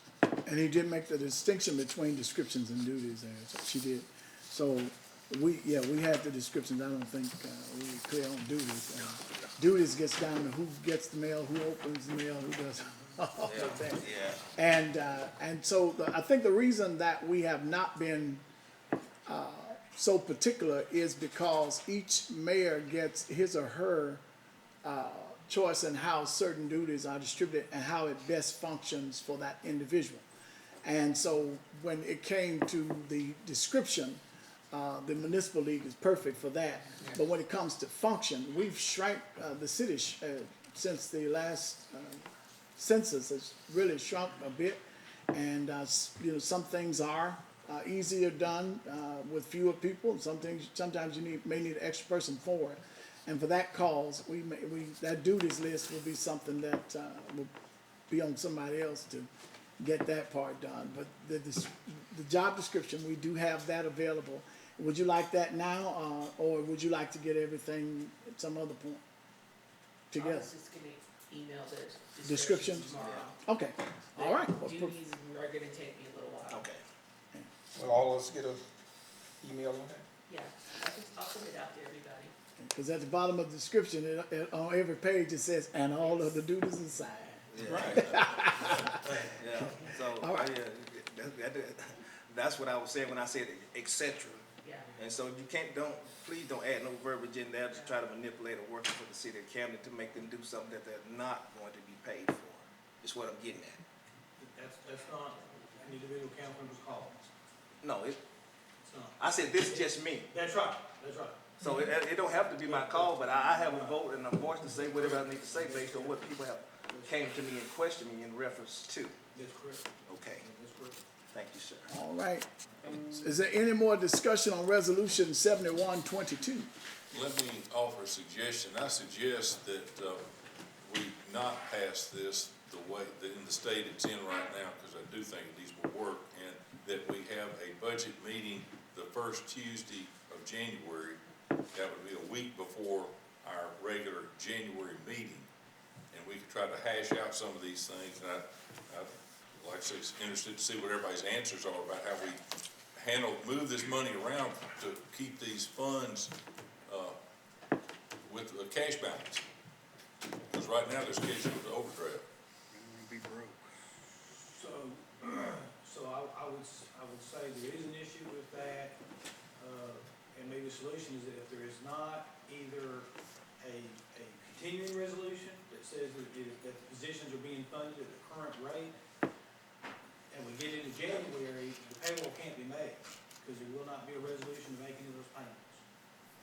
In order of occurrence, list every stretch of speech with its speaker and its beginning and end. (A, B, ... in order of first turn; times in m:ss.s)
0:00.5-0:18.4 A
0:13.4-0:14.4 B
0:19.3-0:24.2 A
0:24.8-0:30.3 A
0:30.8-0:34.2 A
0:34.7-0:44.8 A
0:45.3-0:57.5 A
0:58.1-0:59.3 A
0:59.8-1:09.0 A
1:10.1-1:10.5 A
1:10.2-1:13.4 C
1:12.2-1:15.0 A
1:13.0-1:13.3 B
1:14.2-1:16.7 C
1:16.5-1:16.8 B
1:17.8-1:18.6 D
1:19.4-1:20.0 D
1:20.3-1:22.3 C
1:22.6-1:30.5 A
1:26.0-1:26.3 C
1:27.5-1:28.7 B
1:27.6-1:28.1 D
1:29.2-1:34.4 B
1:34.6-1:34.9 C
1:35.0-1:43.8 B
1:44.4-1:47.3 E
1:47.8-1:48.2 B
1:48.8-1:51.9 E
1:49.2-1:50.3 B
1:51.6-1:59.2 B
1:52.4-1:54.0 E
1:54.8-1:56.3 E
1:56.8-1:57.2 E
1:59.3-2:01.0 E
2:00.1-2:00.4 B
2:01.3-2:01.9 B
2:01.9-2:02.5 A
2:03.0-2:06.7 A
2:07.1-2:10.3 F
2:10.8-2:21.2 F
2:21.7-2:25.5 F
2:26.1-2:32.4 F
2:33.0-2:36.3 F
2:36.9-2:37.2 F
2:38.2-2:39.4 F
2:40.5-2:42.2 F
2:42.9-2:43.5 B
2:44.4-2:49.0 E
2:49.6-2:58.9 E
3:00.3-3:05.8 E